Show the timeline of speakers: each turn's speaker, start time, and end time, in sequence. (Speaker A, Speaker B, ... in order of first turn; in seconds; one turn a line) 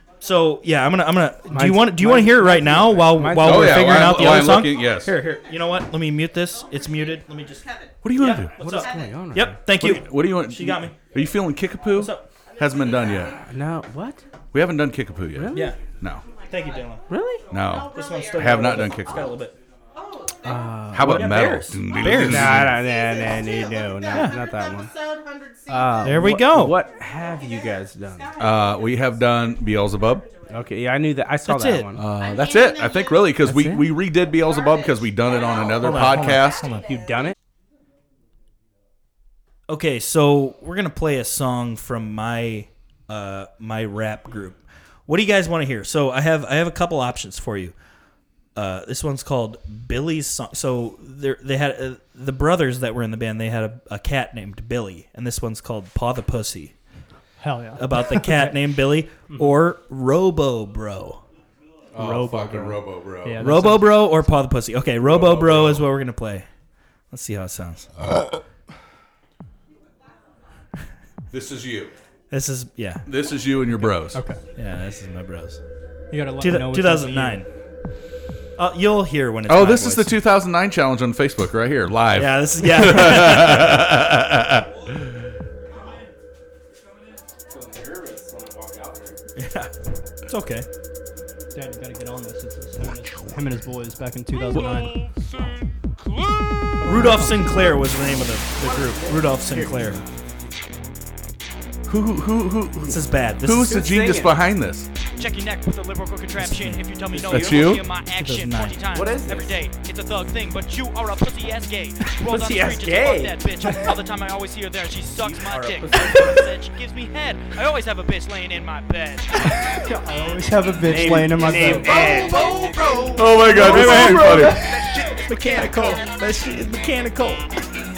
Speaker A: 0.2-10.9
Speaker B: 1.5-4.5
Speaker C: 3.4-5.2
Speaker D: 7.5-7.9
Speaker C: 8.0-8.6
Speaker B: 8.5-9.7
Speaker C: 9.7-13.4
Speaker A: 11.9-12.2
Speaker B: 13.3-14.2
Speaker C: 14.5-16.2
Speaker B: 15.3-15.7
Speaker A: 15.5-15.8
Speaker D: 16.3-16.9
Speaker A: 16.5-17.1
Speaker B: 17.1-17.5
Speaker C: 17.5-19.4
Speaker D: 17.6-18.5
Speaker A: 17.8-19.5
Speaker D: 19.9-20.6
Speaker B: 20.4-21.4
Speaker C: 20.9-22.8
Speaker A: 21.0-22.6
Speaker B: 22.0-25.0
Speaker D: 22.8-26.0
Speaker A: 24.1-24.4
Speaker B: 25.7-28.4
Speaker A: 26.0-26.8
Speaker D: 27.5-27.7
Speaker D: 28.4-29.4
Speaker C: 28.4-30.3
Speaker B: 30.5-32.1
Speaker A: 31.5-31.9
Speaker C: 32.0-36.8
Speaker D: 32.2-33.3
Speaker B: 33.4-34.0
Speaker D: 34.5-36.9
Speaker A: 35.8-36.8
Speaker B: 35.9-37.3
Speaker A: 39.7-47.8
Speaker A: 48.6-56.7
Speaker E: 57.4-58.5
Speaker A: 57.8-61.2
Speaker C: 61.9-63.5
Speaker E: 62.0-64.1
Speaker A: 63.4-66.5
Speaker C: 65.0-65.9
Speaker A: 67.1-67.9
Speaker C: 71.3-71.9
Speaker A: 72.3-73.1
Speaker C: 73.1-74.2
Speaker E: 74.1-74.4
Speaker A: 74.5-75.6
Speaker E: 76.1-77.4
Speaker A: 76.4-77.5
Speaker A: 78.6-80.2
Speaker C: 79.5-84.9
Speaker A: 82.2-83.8
Speaker B: 87.5-89.2
Speaker A: 89.4-89.7
Speaker A: 90.3-90.7
Speaker E: 91.5-95.1
Speaker E: 96.8-97.4
Speaker A: 96.8-100.0
Speaker B: 98.7-99.9
Speaker C: 101.9-104.9
Speaker A: 102.9-103.8
Speaker B: 103.7-104.4
Speaker F: 105.2-119.3
Speaker A: 106.4-108.8
Speaker B: 107.2-107.7
Speaker C: 107.3-107.9
Speaker B: 108.9-109.6
Speaker B: 112.2-113.5
Speaker B: 115.1-116.5
Speaker E: 119.8-122.1
Speaker B: 120.9-122.9
Speaker F: 121.8-126.1
Speaker C: 123.2-124.6
Speaker A: 123.3-127.5